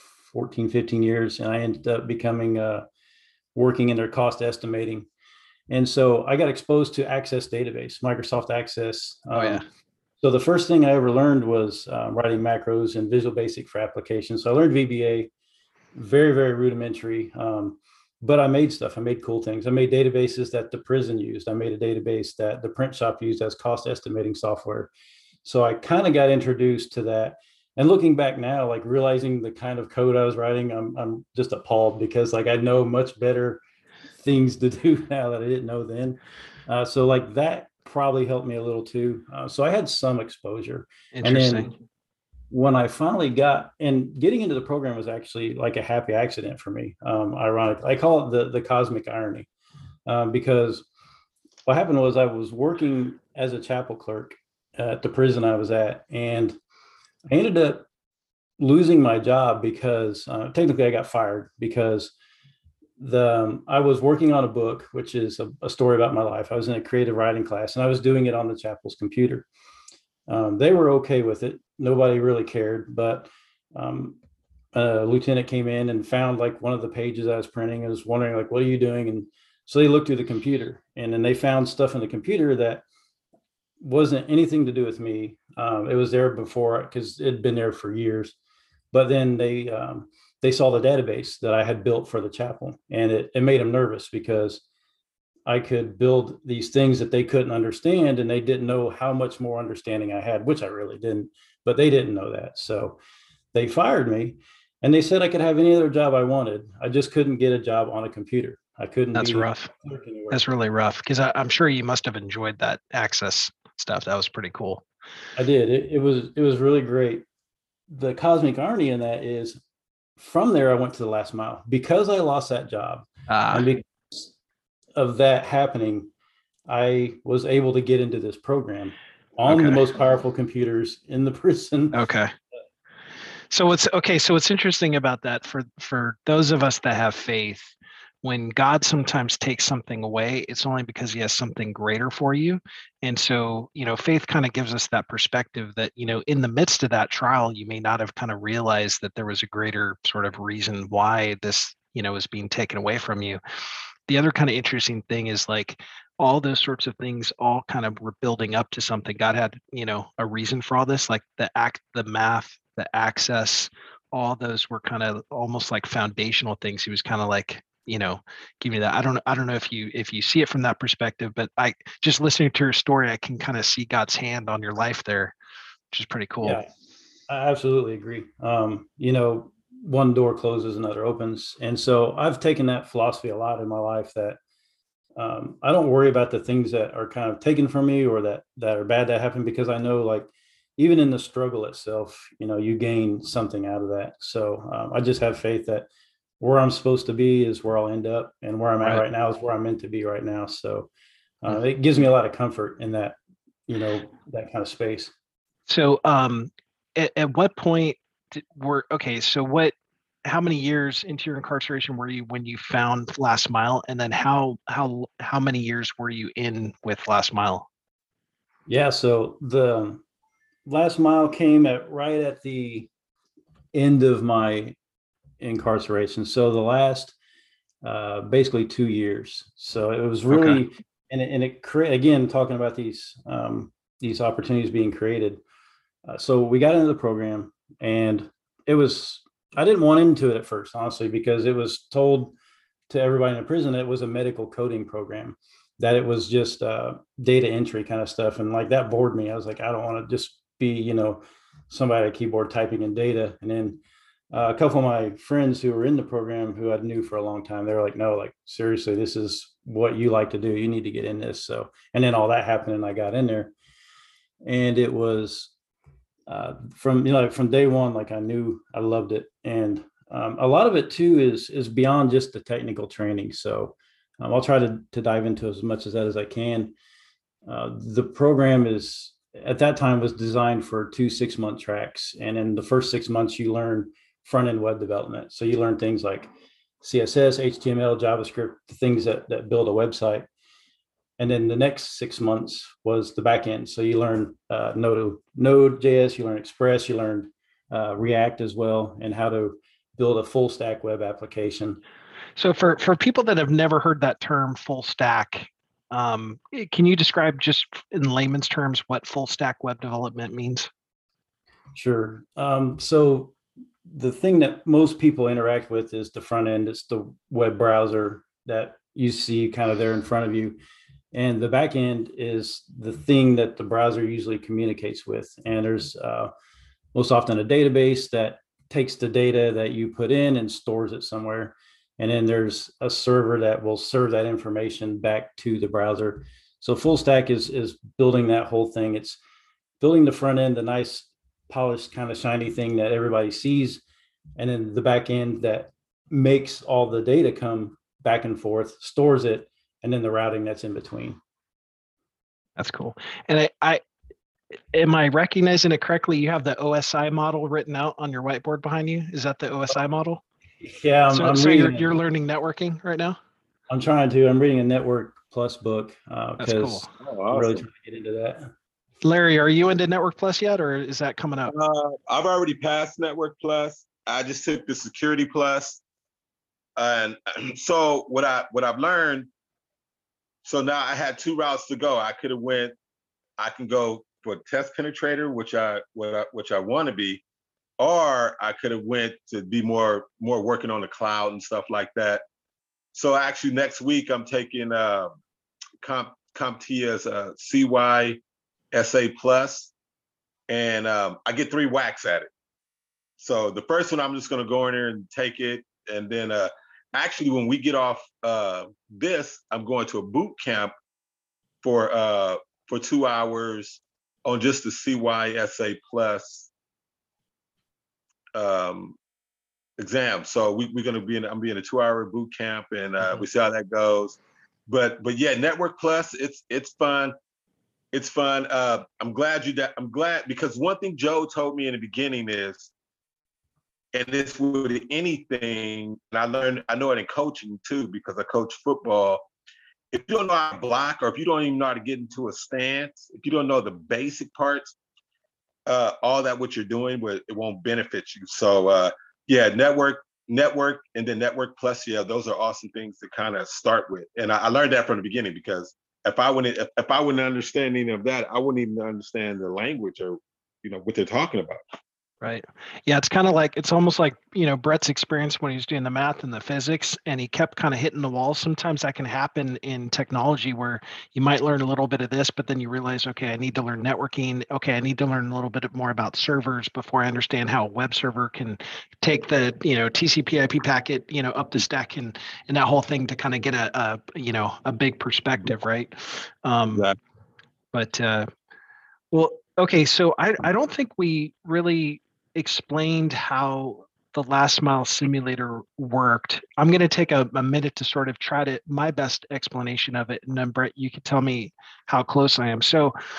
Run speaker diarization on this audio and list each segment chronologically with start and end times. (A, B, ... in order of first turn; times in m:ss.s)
0:00.3-0:02.8 A
0:03.5-0:05.1 A
0:05.7-0:09.6 A
0:09.3-0:09.6 B
0:10.2-0:15.3 A
0:15.9-0:24.9 A
0:25.4-0:33.6 A
0:34.2-0:41.7 A
0:41.1-0:41.8 B
0:42.5-0:49.5 A
0:50.1-0:50.9 A
0:51.6-0:56.6 A
0:57.3-0:57.8 A
0:58.6-1:02.1 A
1:03.0-1:09.5 A
1:10.3-1:14.2 A
1:14.7-1:22.8 A
1:23.8-1:28.3 A
1:28.9-1:34.6 A
1:35.4-1:43.0 A
1:43.5-1:50.4 A
1:49.1-1:49.7 B
1:50.3-1:54.8 B
1:55.4-1:57.2 A
1:57.9-1:59.6 A
2:00.2-2:04.3 A
2:03.3-2:03.7 B
2:05.0-2:06.1 A
2:06.7-2:12.0 A
2:09.5-2:09.8 B
2:11.9-2:12.3 B
2:13.5-2:33.4 B
2:34.1-2:55.3 B
2:55.9-2:56.6 B
2:56.4-2:56.7 A
2:57.3-3:04.4 A
3:05.2-3:15.9 A
3:16.4-3:20.9 A
3:21.4-3:25.1 A
3:25.7-3:29.7 B
3:30.2-3:37.7 B
3:38.7-3:40.0 A
3:40.6-3:42.9 A
3:43.7-3:44.8 A
3:45.4-3:47.2 A
3:47.8-3:55.4 A
3:50.3-3:50.6 B
3:56.1-4:02.3 A
4:02.9-4:13.8 A
4:14.3-4:23.5 A
4:24.4-4:25.5 A
4:26.3-4:36.7 A
4:37.5-4:46.3 A
4:46.8-4:50.3 A
4:51.2-5:01.8 A
5:02.4-5:10.7 B
5:11.7-5:13.3 A
5:13.9-5:20.6 A
5:21.1-5:26.3 A
5:26.9-5:39.2 A
5:39.8-5:43.8 A
5:44.4-5:51.2 A
5:52.6-5:53.8 B
5:54.7-6:00.2 B
6:00.6-6:01.9 A
6:01.1-6:03.2 B
6:03.7-6:08.5 A
6:06.4-6:06.9 B
6:07.0-6:07.6 C
6:09.0-6:11.5 B
6:11.5-6:15.8 C
6:16.8-6:19.3 C
6:20.4-6:22.7 C
6:23.4-6:27.2 C
6:27.8-6:32.2 C
6:32.9-6:35.1 C
6:35.8-6:38.2 C
6:38.7-6:39.7 C
6:40.5-6:42.3 C
6:43.2-6:50.7 C
6:51.6-6:56.5 C
6:58.3-6:59.0 C
6:59.8-7:07.1 C
7:07.9-7:12.7 C
7:13.9-7:19.2 C
7:19.9-7:24.8 C
7:25.7-7:41.6 C
7:42.2-8:06.9 B
8:07.7-8:08.3 B
8:09.1-8:22.9 B